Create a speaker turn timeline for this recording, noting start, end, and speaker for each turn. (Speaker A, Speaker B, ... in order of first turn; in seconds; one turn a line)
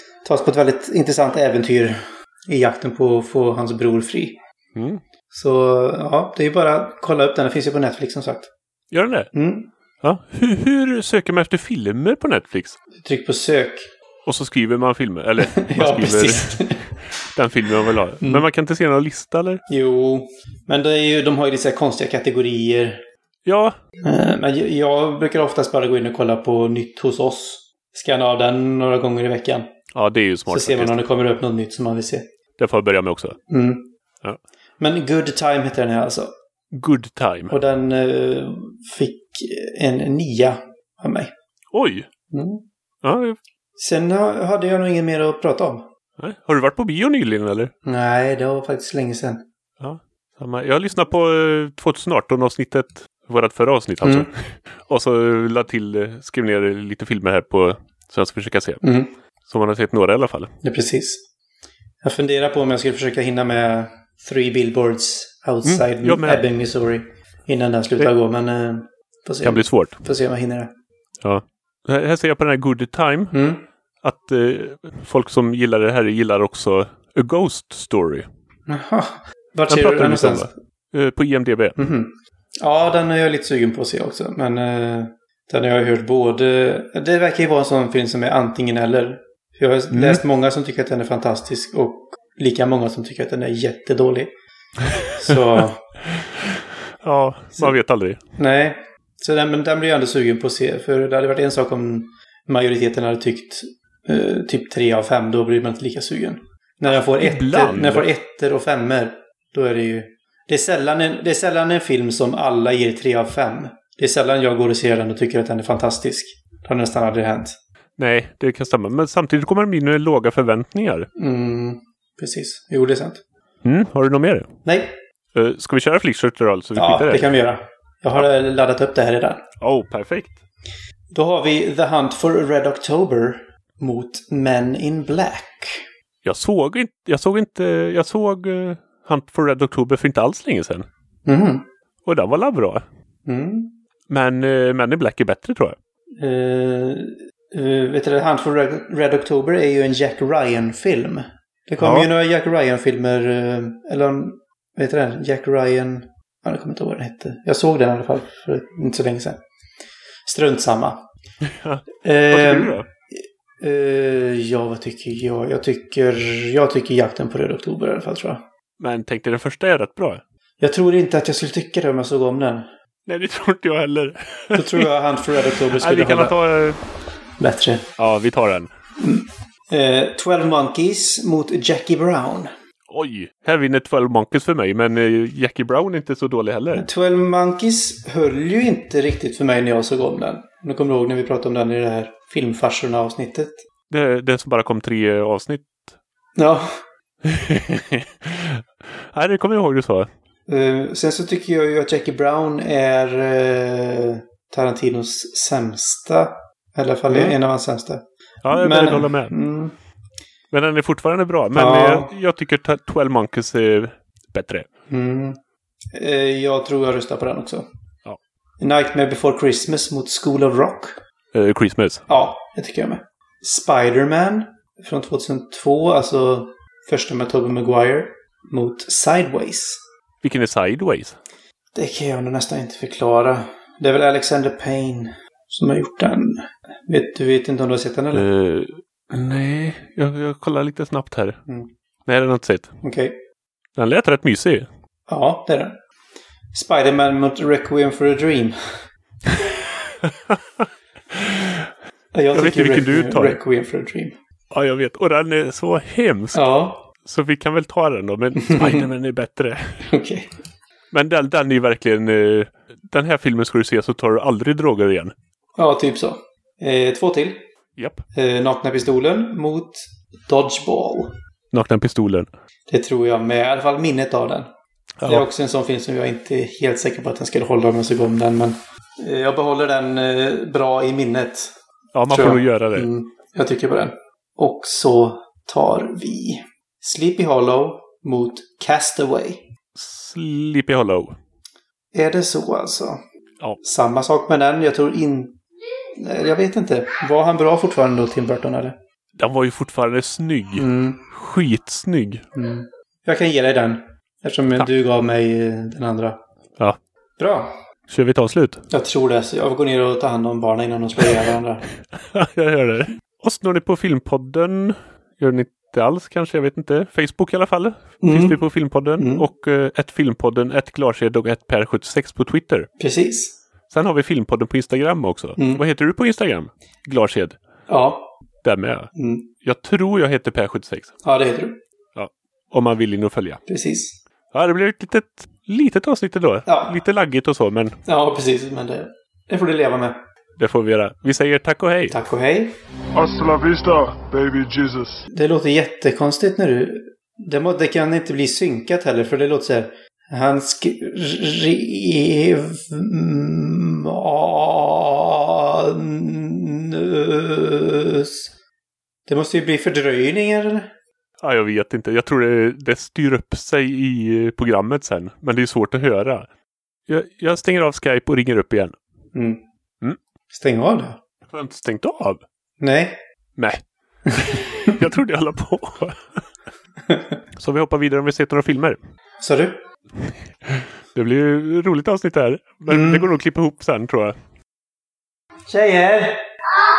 Speaker A: 0.2-4.4
Speaker B: 4.8-5.0
Speaker A: 5.3-8.5
Speaker B: 8.9-9.3
Speaker A: 9.3-9.7
Speaker B: 10.0-12.8
Speaker A: 12.9-13.9
Speaker B: 14.2-19.6
Speaker A: 15.4-16.9
Speaker A: 18.2-18.4
Speaker A: 19.7-23.0
Speaker B: 23.4-23.8
Speaker A: 24.0-29.7
Speaker B: 29.9-31.0
Speaker A: 30.5-32.3
Speaker B: 32.6-33.4
Speaker A: 33.5-33.9
Speaker A: 34.8-36.3
Speaker B: 36.7-37.5
Speaker A: 37.5-41.3
Speaker B: 41.7-42.1
Speaker A: 42.3-42.6
Speaker B: 43.0-43.4
Speaker A: 43.8-45.9
Speaker B: 46.2-47.7
Speaker A: 47.9-49.4
Speaker B: 49.8-58.9
Speaker A: 54.0-54.3
Speaker A: 58.8-59.1
Speaker B: 59.5-60.5
Speaker A: 60.6-61.2
Speaker A: 62.0-70.7
Speaker B: 65.6-66.4
Speaker B: 69.4-70.0
Speaker B: 71.2-73.4
Speaker A: 73.3-73.7
Speaker B: 74.0-78.3
Speaker A: 78.7-80.5
Speaker B: 79.7-81.8
Speaker A: 81.8-94.3
Speaker B: 89.9-90.2
Speaker B: 94.8-95.6
Speaker A: 95.1-95.9
Speaker B: 96.1-98.2
Speaker A: 98.4-117.6
Speaker B: 107.2-108.1
Speaker B: 118.0-121.1
Speaker A: 121.2-123.2
Speaker B: 123.6-124.5
Speaker A: 124.7-125.0
Speaker B: 125.3-127.3
Speaker A: 126.8-129.4
Speaker B: 129.6-130.4
Speaker A: 131.1-135.9
Speaker B: 136.2-140.9
Speaker A: 141.3-141.7
Speaker B: 142.1-142.8
Speaker A: 143.3-143.8
Speaker B: 144.1-145.8
Speaker A: 146.2-159.4
Speaker B: 151.8-152.1
Speaker A: 160.3-161.1
Speaker B: 161.4-162.9
Speaker A: 162.0-168.4
Speaker B: 168.8-170.2
Speaker A: 170.6-172.7
Speaker B: 173.1-176.8
Speaker A: 174.5-176.4
Speaker A: 177.4-177.9
Speaker B: 178.0-178.7
Speaker A: 179.0-182.5
Speaker B: 182.9-186.8
Speaker A: 186.7-193.6
Speaker B: 193.9-195.9
Speaker A: 196.4-196.7
Speaker B: 197.2-200.1
Speaker A: 200.5-209.8
Speaker B: 207.1-207.4
Speaker B: 208.4-209.3
Speaker B: 210.5-214.7
Speaker A: 211.6-212.1
Speaker A: 214.9-215.4
Speaker A: 215.9-217.7
Speaker A: 218.6-221.0
Speaker B: 221.3-222.1
Speaker A: 222.1-229.8
Speaker B: 230.2-231.2
Speaker A: 231.7-238.3
Speaker B: 238.1-241.4
Speaker B: 242.1-242.7
Speaker A: 242.8-243.2
Speaker B: 243.8-244.7
Speaker A: 245.1-245.8
Speaker A: 246.5-248.8
Speaker B: 249.3-251.7
Speaker A: 252.1-254.2
Speaker B: 252.3-253.4
Speaker B: 254.5-259.9
Speaker A: 256.3-256.9
Speaker A: 258.4-258.9
Speaker A: 259.9-260.3
Speaker B: 260.9-265.1
Speaker A: 265.6-267.5
Speaker B: 267.8-268.1
Speaker A: 268.1-271.1
Speaker B: 271.5-272.3
Speaker A: 272.7-274.5
Speaker B: 275.0-275.3
Speaker A: 275.1-281.6
Speaker B: 281.9-282.9
Speaker A: 282.1-289.4
Speaker B: 289.8-291.2
Speaker A: 291.9-293.0
Speaker A: 293.6-295.4
Speaker A: 295.9-298.8
Speaker B: 299.2-302.2
Speaker A: 300.6-301.0
Speaker A: 302.4-306.2
Speaker A: 307.2-307.6
Speaker B: 307.9-308.6
Speaker A: 308.7-311.6
Speaker B: 311.9-322.7
Speaker A: 318.0-318.4
Speaker A: 319.0-319.3
Speaker A: 322.8-323.4
Speaker B: 323.7-327.4
Speaker A: 325.4-325.6
Speaker A: 327.7-328.1
Speaker B: 328.4-328.9
Speaker A: 328.9-329.3
Speaker B: 329.4-330.9
Speaker A: 331.0-331.6
Speaker B: 332.0-333.4
Speaker A: 333.5-334.0
Speaker B: 334.3-337.8
Speaker A: 336.5-336.8
Speaker A: 337.9-340.0
Speaker B: 340.4-342.0
Speaker A: 341.9-342.6
Speaker C: 342.9-345.0
Speaker A: 345.1-358.3
Speaker A: 359.1-360.7
Speaker B: 361.2-366.3
Speaker B: 366.9-368.8
Speaker A: 369.1-369.4
Speaker A: 370.3-371.0
Speaker B: 371.3-372.2
Speaker A: 372.6-373.0
Speaker B: 373.4-376.2
Speaker A: 376.9-377.2
Speaker B: 377.4-378.8
Speaker A: 379.2-379.6
Speaker B: 380.4-384.2
Speaker A: 382.7-383.1
Speaker A: 385.5-386.2